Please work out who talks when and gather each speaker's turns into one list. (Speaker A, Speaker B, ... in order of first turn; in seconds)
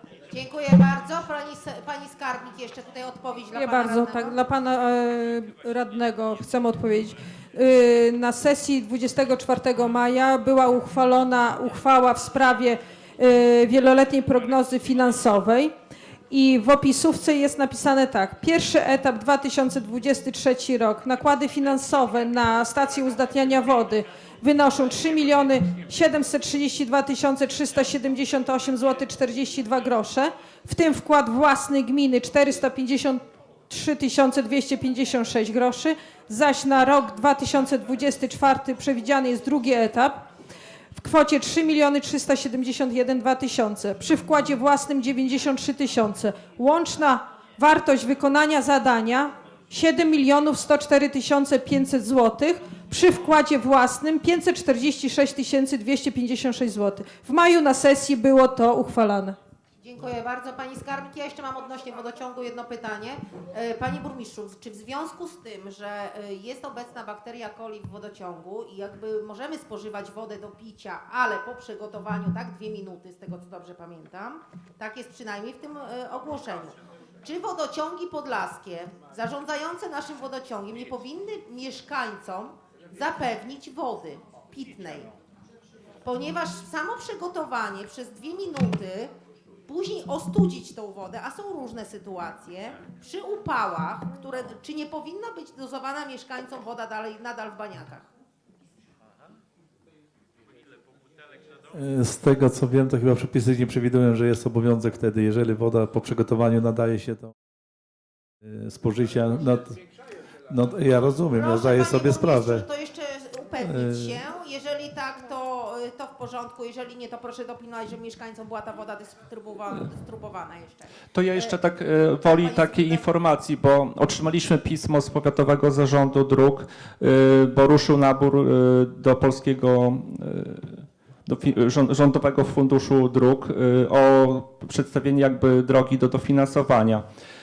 Speaker A: 0.3-4.4, 59.8-85.1, 86.0-89.1, 89.7-98.1, 111.3-121.6, 122.2-123.1
Speaker B: 3.5-15.7, 16.3-40.2, 41.0-59.4
Speaker C: 101.7-107.3, 108.4-109.8, 110.5-112.7, 113.6-114.2
Speaker D: 121.1-137.0